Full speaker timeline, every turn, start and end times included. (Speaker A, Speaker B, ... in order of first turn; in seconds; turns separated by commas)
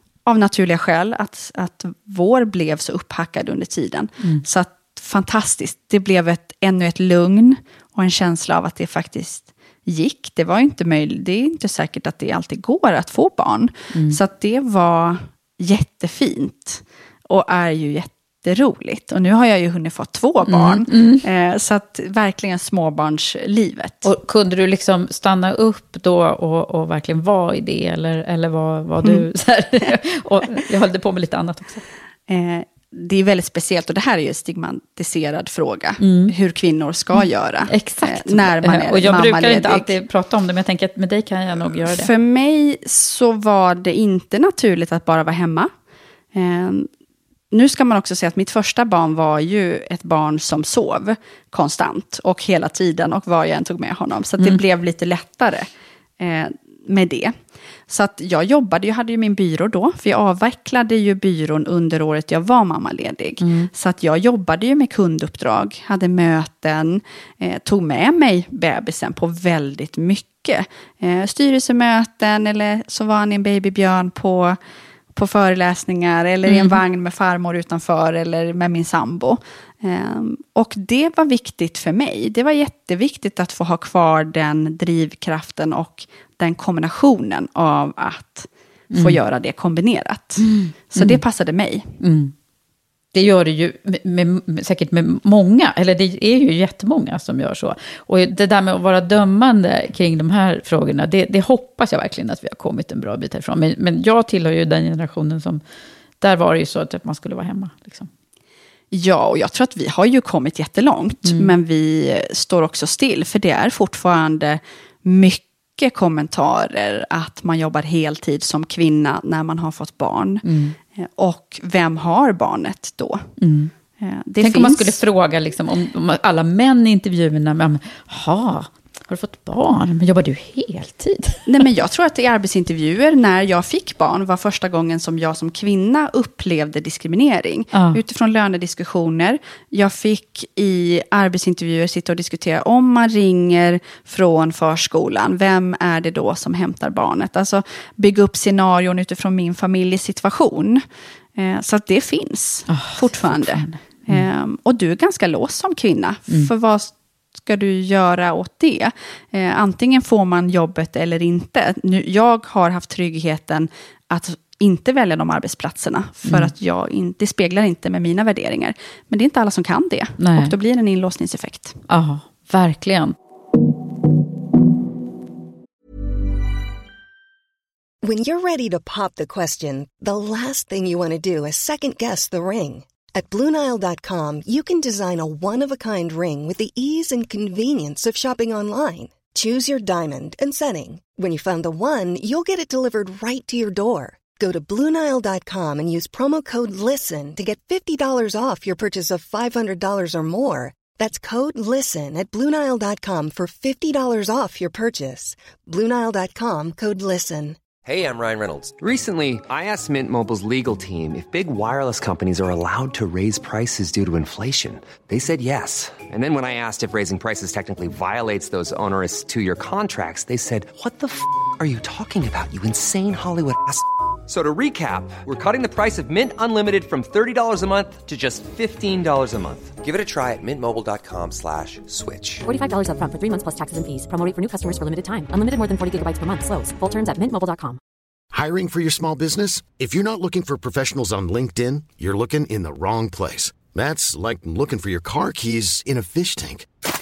Speaker A: 0.2-24.1, Speaker B: 13.9-14.2, Speaker B: 20.5-21.2, Speaker B: 24.0-31.8, Speaker A: 32.3-39.9, Speaker B: 36.0-36.3, Speaker B: 37.2-42.1, Speaker A: 41.9-45.7, Speaker A: 46.3-46.9, Speaker A: 47.5-55.7, Speaker A: 56.2-57.3, Speaker A: 57.9-74.6, Speaker B: 63.4-63.7, Speaker A: 75.1-91.9, Speaker B: 76.5-76.8, Speaker B: 88.9-89.2, Speaker B: 90.4-91.2, Speaker B: 92.0-92.3, Speaker B: 93.1-105.6, Speaker B: 106.2-108.1, Speaker A: 108.9-120.4, Speaker B: 111.2-111.5, Speaker B: 120.4-120.8, Speaker A: 120.9-123.3, Speaker B: 123.4-123.7, Speaker A: 124.0-125.0, Speaker B: 124.4-131.5, Speaker A: 131.5-150.8, Speaker B: 137.7-138.0, Speaker A: 151.4-171.8, Speaker B: 152.7-154.3, Speaker B: 166.2-166.5, Speaker B: 170.2-170.5, Speaker B: 171.9-173.1, Speaker C: 178.0-207.6, Speaker D: 207.8-232.4, Speaker E: 232.5-237.8, Speaker F: 238.3-246.7